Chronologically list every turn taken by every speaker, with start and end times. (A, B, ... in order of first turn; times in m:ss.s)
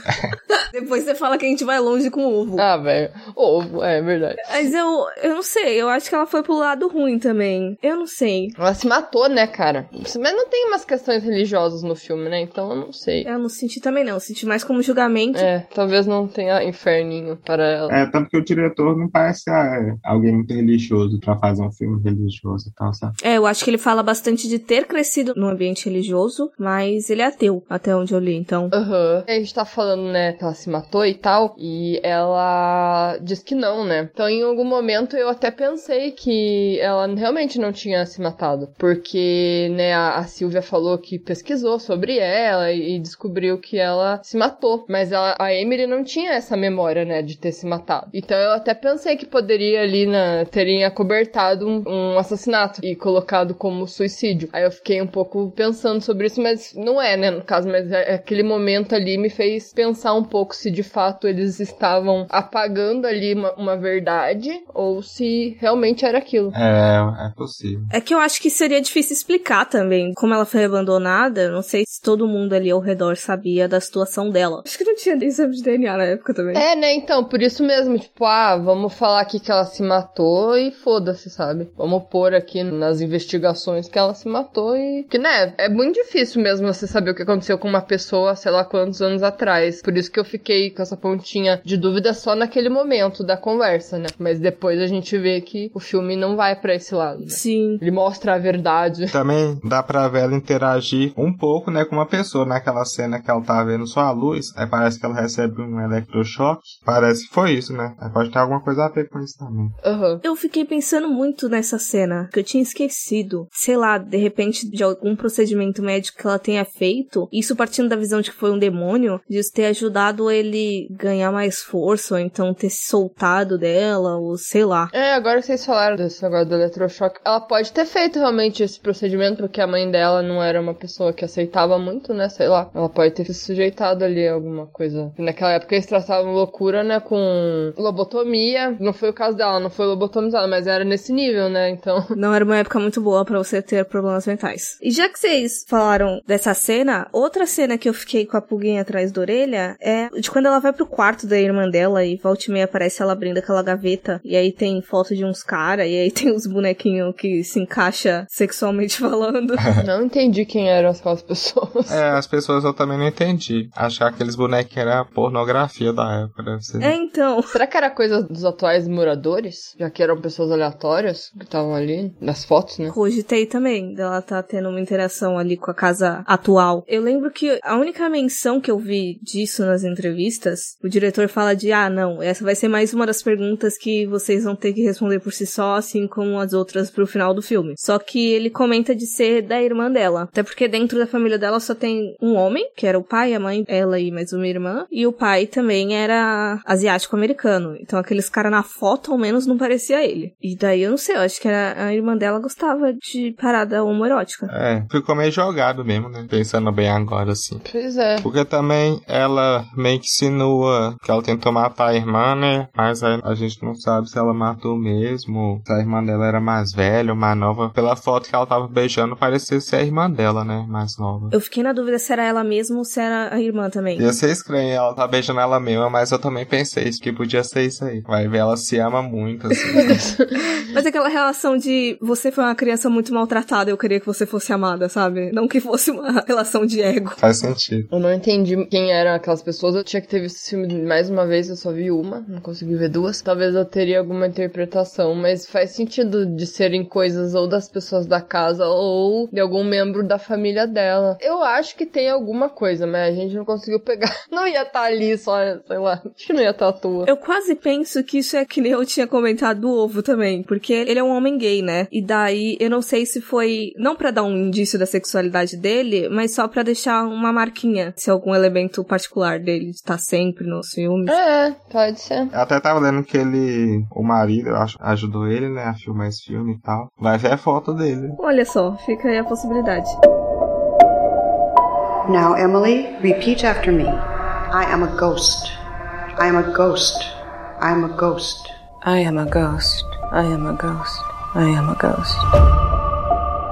0:00.7-0:02.6 A
0:02.6-0:04.6 B
0:04.5-0:08.6 A
0:08.6-0:13.3 B
0:13.2-0:15.5 A
0:15.4-0:17.9 B
0:17.9-0:23.2 C
0:23.2-0:28.7 A
0:28.7-1:06.6 B
1:06.5-1:07.9 C
1:07.9-1:16.6 A
1:16.5-1:39.2 B
1:37.3-1:37.8 A
1:39.1-1:49.7 C
1:49.8-1:50.2 B
1:50.2-2:04.9 A
2:04.9-2:22.1 B
2:22.2-2:39.7 A
2:39.8-2:42.2 B
2:41.9-2:47.0 C
2:46.8-2:47.5 A
2:47.5-2:52.9 B
2:52.9-3:24.5 A
3:24.5-3:27.6 C
3:27.7-3:28.3 B
3:28.2-3:41.4 C
3:41.3-3:44.0 A
3:44.0-3:50.0 C
3:49.8-3:50.4 B
3:50.6-3:57.2 A
3:57.2-3:57.9 C
3:57.9-4:17.1 B
4:17.0-4:31.2 A
4:31.1-4:32.3 B
4:32.3-4:38.2 C
4:38.2-4:40.0 A
4:42.1-4:44.0 D
4:44.5-4:45.5 D
4:46.2-4:48.5 D
4:48.8-4:52.3 E